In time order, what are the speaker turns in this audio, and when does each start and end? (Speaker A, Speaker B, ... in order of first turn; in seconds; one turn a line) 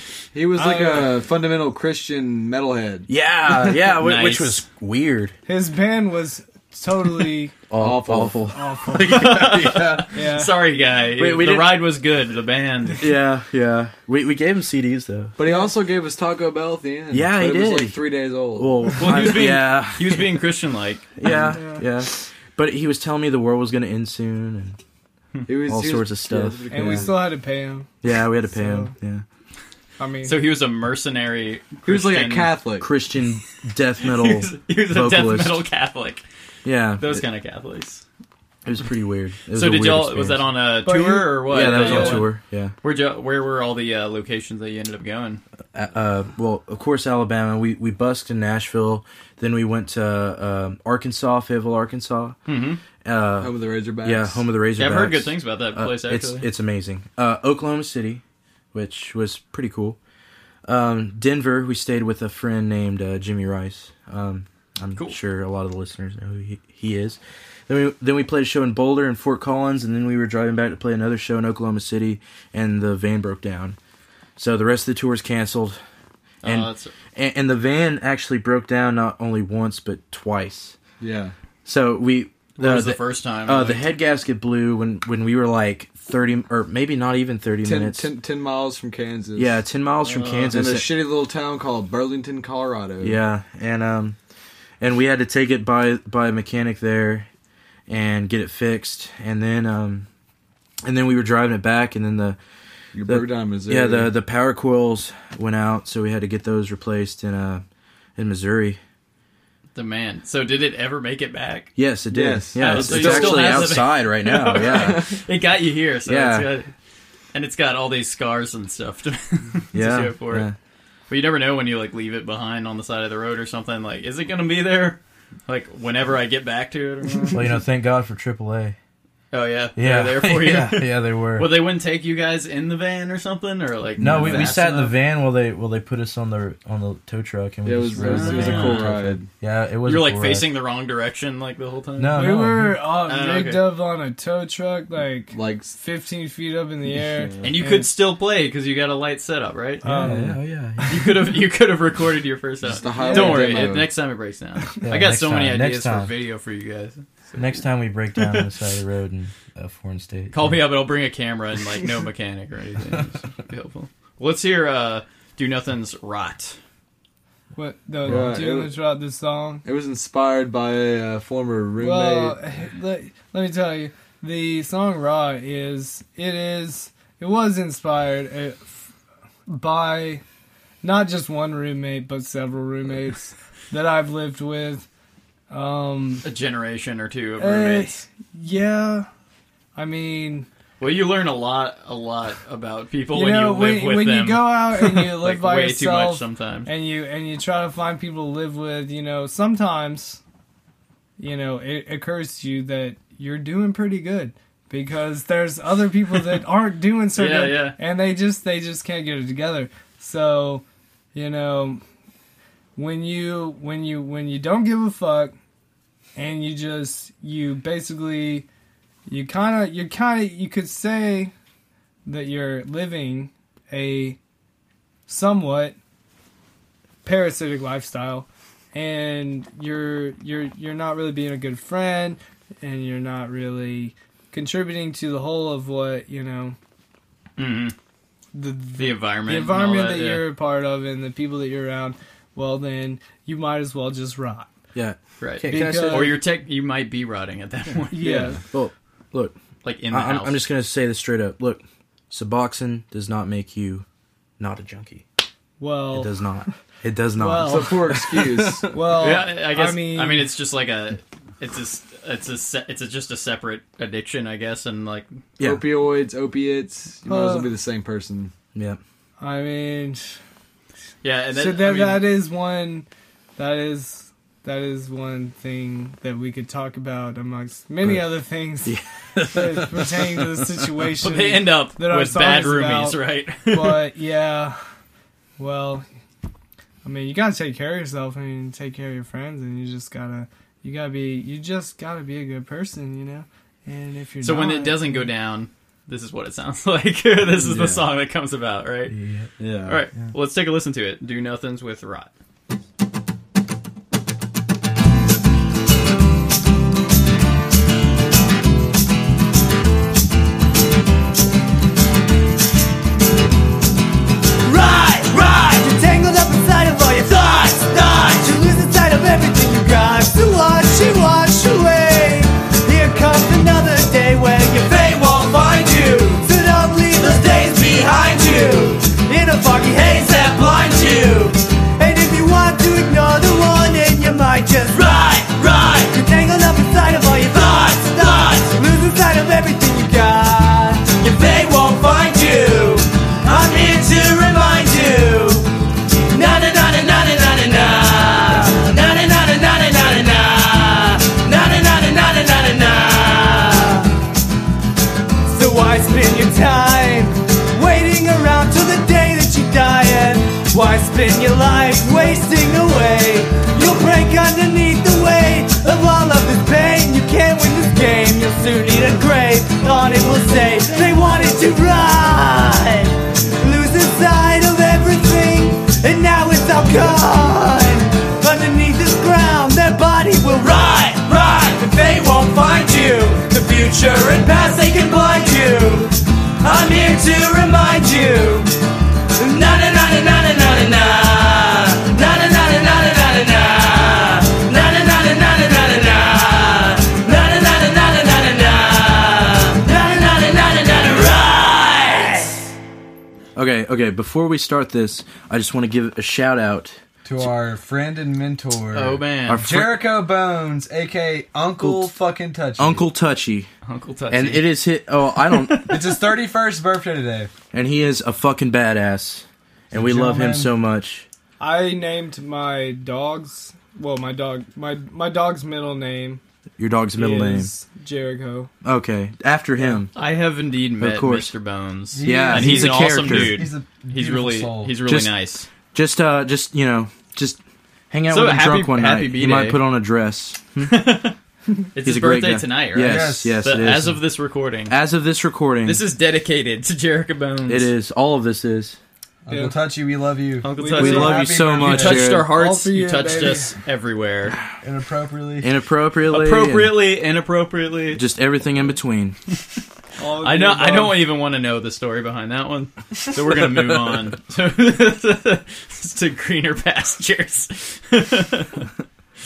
Speaker A: 0.3-3.1
Speaker B: 0.6-1.2
Speaker C: 3.1-5.3
Speaker D: 3.7-4.6
Speaker B: 5.5-7.6
Speaker C: 7.7-10.1
Speaker A: 7.8-8.4
Speaker B: 8.5-9.2
Speaker D: 9.0-13.0
Speaker A: 9.6-10.0
Speaker B: 10.1-10.5
Speaker C: 11.2-11.9
Speaker C: 13.0-15.4
Speaker A: 15.4-19.0
Speaker C: 17.1-18.0
Speaker C: 18.6-20.3
Speaker D: 19.0-21.4
Speaker C: 21.2-24.8
Speaker B: 21.4-21.9
Speaker A: 25.5-27.1
Speaker C: 25.7-27.1
Speaker B: 26.7-27.9
Speaker C: 28.0-29.2
Speaker B: 28.5-28.9
Speaker B: 30.0-30.4
Speaker D: 30.2-32.5
Speaker A: 31.8-32.9
Speaker C: 32.8-35.6
Speaker D: 34.0-36.2
Speaker C: 36.6-37.2
Speaker D: 37.0-38.0
Speaker C: 38.6-40.5
Speaker D: 39.5-45.4
Speaker B: 40.9-42.3
Speaker C: 41.4-42.7
Speaker C: 45.7-52.4
Speaker D: 52.5-52.8
Speaker C: 53.0-58.2
Speaker A: 53.4-54.5
Speaker D: 54.8-56.5
Speaker C: 58.7-60.0
Speaker C: 60.7-73.8
Speaker C: 74.4-75.8
Speaker D: 76.4-76.9
Speaker C: 76.4-80.8
Speaker A: 81.0-81.3
Speaker C: 81.7-88.1
Speaker D: 82.6-83.9
Speaker A: 87.6-89.6
Speaker C: 89.4-90.9
Speaker D: 90.0-90.6
Speaker A: 90.5-93.2
Speaker C: 93.0-94.2
Speaker C: 94.8-97.3
Speaker C: 97.9-100.1
Speaker C: 100.8-102.4
Speaker A: 102.9-104.1
Speaker C: 103.1-107.6
Speaker C: 108.2-108.8
Speaker D: 109.8-111.7
Speaker C: 111.8-115.2
Speaker A: 112.1-113.8
Speaker D: 112.6-116.7
Speaker A: 114.6-115.0
Speaker C: 116.1-116.5
Speaker D: 117.3-120.5
Speaker C: 119.7-120.5
Speaker D: 121.1-127.5
Speaker C: 127.3-128.8
Speaker D: 129.3-134.9
Speaker C: 129.8-131.5
Speaker C: 134.0-140.5
Speaker A: 134.0-134.8
Speaker A: 137.6-139.3
Speaker D: 138.0-138.9
Speaker D: 139.8-142.3
Speaker C: 142.0-142.8
Speaker B: 142.1-147.9
Speaker D: 143.1-143.7
Speaker A: 145.3-145.8
Speaker A: 146.9-147.5
Speaker D: 147.4-149.9
Speaker B: 149.8-150.3
Speaker A: 149.9-150.3
Speaker C: 149.9-151.2
Speaker D: 150.9-157.6
Speaker A: 152.6-153.9
Speaker B: 152.9-153.8
Speaker C: 154.8-156.1
Speaker C: 157.4-160.6
Speaker D: 158.2-158.5
Speaker D: 160.3-166.6
Speaker B: 167.6-169.6
Speaker A: 168.0-168.7
Speaker C: 168.1-168.4
Speaker A: 169.7-172.4
Speaker B: 171.8-178.8
Speaker B: 179.5-180.2
Speaker B: 180.8-184.9
Speaker B: 185.5-186.2
Speaker D: 186.2-188.0
Speaker B: 187.4-189.1
Speaker B: 189.8-190.5
Speaker D: 190.8-196.7
Speaker B: 193.1-200.2
Speaker B: 201.2-211.8
Speaker D: 207.2-207.8
Speaker B: 212.8-215.3
Speaker B: 216.2-218.5
Speaker B: 219.1-221.3
Speaker B: 222.1-224.2
Speaker B: 225.1-225.8
Speaker B: 227.0-236.6
Speaker D: 237.4-237.8
Speaker B: 238.3-244.5
Speaker D: 238.8-240.2
Speaker C: 244.8-246.2
Speaker D: 245.2-248.2
Speaker B: 245.5-246.2
Speaker B: 247.9-248.4
Speaker A: 248.0-248.4
Speaker C: 248.5-249.4
Speaker D: 249.6-250.4
Speaker C: 249.9-253.8
Speaker C: 254.4-255.1
Speaker B: 255.6-256.1
Speaker C: 255.9-258.8
Speaker B: 257.2-257.9
Speaker A: 257.4-258.8
Speaker B: 258.7-260.3
Speaker D: 258.9-265.2
Speaker A: 265.4-268.3
Speaker B: 267.1-267.5
Speaker C: 268.6-268.8
Speaker B: 269.2-270.1
Speaker D: 271.0-272.1
Speaker B: 271.3-272.9
Speaker B: 273.4-284.6
Speaker C: 278.6-280.5
Speaker D: 281.0-283.9
Speaker B: 285.4-285.9
Speaker B: 286.8-295.1
Speaker D: 294.2-298.9
Speaker C: 297.5-297.8
Speaker A: 299.0-299.3
Speaker C: 299.4-299.8
Speaker D: 299.7-302.1
Speaker E: 314.4-345.5
Speaker E: 346.1-353.9
Speaker E: 355.3-388.5
Speaker E: 389.2-402.5
Speaker C: 403.4-407.3
Speaker A: 407.0-412.9
Speaker D: 408.7-409.4
Speaker C: 409.3-409.9
Speaker C: 411.6-411.9
Speaker C: 412.6-413.5
Speaker D: 413.6-414.5
Speaker C: 414.1-415.8
Speaker D: 415.3-415.9
Speaker A: 415.6-417.3
Speaker C: 417.5-421.1
Speaker A: 419.7-420.5
Speaker B: 421.4-426.2
Speaker C: 426.6-427.5
Speaker B: 427.0-428.5
Speaker C: 428.6-429.9
Speaker D: 429.9-435.5
Speaker C: 430.8-431.3
Speaker A: 431.9-434.8
Speaker C: 432.0-433.5
Speaker C: 434.9-435.1
Speaker C: 435.7-437.4
Speaker C: 437.9-440.8
Speaker D: 438.1-439.6
Speaker D: 440.6-441.2
Speaker D: 441.7-444.8
Speaker C: 441.8-444.0
Speaker A: 442.8-443.4
Speaker C: 444.7-445.8
Speaker D: 445.6-447.7
Speaker C: 447.5-448.8
Speaker A: 449.3-452.1
Speaker B: 449.3-449.6
Speaker D: 450.4-454.4
Speaker B: 450.6-451.4
Speaker C: 450.8-452.3
Speaker B: 452.0-453.5
Speaker A: 454.6-455.5
Speaker C: 455.4-456.8
Speaker D: 456.1-458.0
Speaker C: 457.9-459.2
Speaker B: 460.0-461.0
Speaker D: 460.2-468.7